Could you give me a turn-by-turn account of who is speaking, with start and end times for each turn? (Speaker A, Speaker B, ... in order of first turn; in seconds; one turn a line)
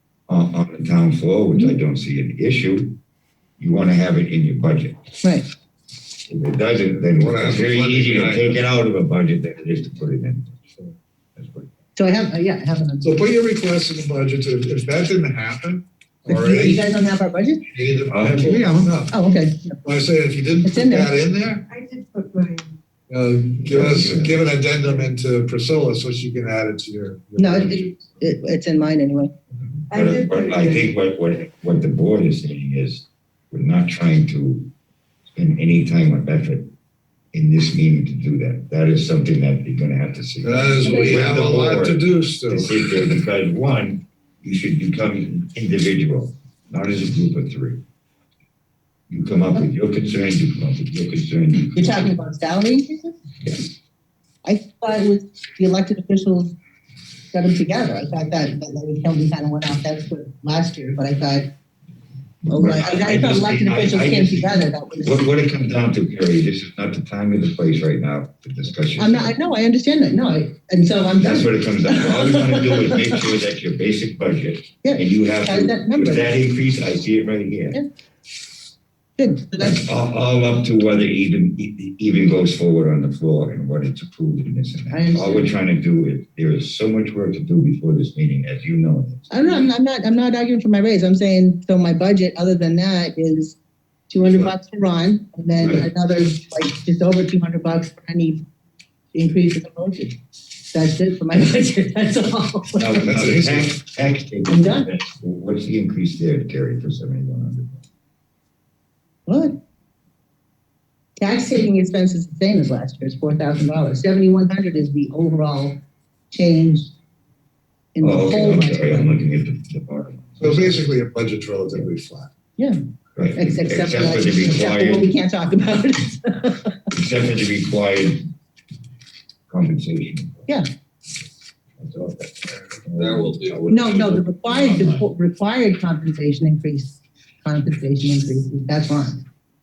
Speaker A: 0.3-3.0
Speaker A: 3.6-5.0
Speaker A: 6.3-10.6
Speaker B: 7.0-8.7
Speaker A: 11.4-11.7
Speaker C: 12.0-13.2
Speaker B: 13.0-16.9
Speaker C: 16.3-17.7
Speaker B: 17.7-19.2
Speaker A: 18.1-18.9
Speaker C: 19.1-19.8
Speaker B: 19.8-21.6
Speaker C: 20.6-21.1
Speaker D: 21.7-22.7
Speaker B: 23.1-28.1
Speaker A: 23.6-25.1
Speaker C: 27.4-29.3
Speaker A: 29.9-34.7
Speaker D: 29.9-30.9
Speaker A: 35.3-36.7
Speaker A: 37.3-47.8
Speaker B: 40.4-43.2
Speaker A: 49.1-52.1
Speaker C: 51.8-53.2
Speaker C: 54.4-56.5
Speaker C: 57.3-61.5
Speaker A: 62.5-69.3
Speaker C: 62.5-65.2
Speaker C: 69.0-73.2
Speaker A: 71.2-77.8
Speaker C: 74.8-76.3
Speaker C: 79.2-79.8
Speaker A: 79.6-89.7
Speaker C: 84.9-85.6
Speaker C: 89.3-93.6
Speaker C: 94.1-98.4
Speaker A: 95.6-95.8
Speaker C: 99.1-100.2
Speaker C: 100.7-103.0
Speaker A: 102.8-107.8
Speaker B: 103.0-103.8
Speaker C: 104.5-104.9
Speaker C: 109.3-109.6
Speaker C: 111.2-115.8
Speaker C: 116.3-116.9
Speaker C: 118.0-119.2
Speaker A: 118.0-120.8
Speaker B: 120.4-122.3
Speaker A: 123.2-125.1
Speaker C: 123.4-126.8
Speaker A: 126.9-128.3
Speaker A: 129.5-130.4
Speaker A: 131.8-135.1
Speaker B: 133.0-133.6
Speaker C: 133.7-139.2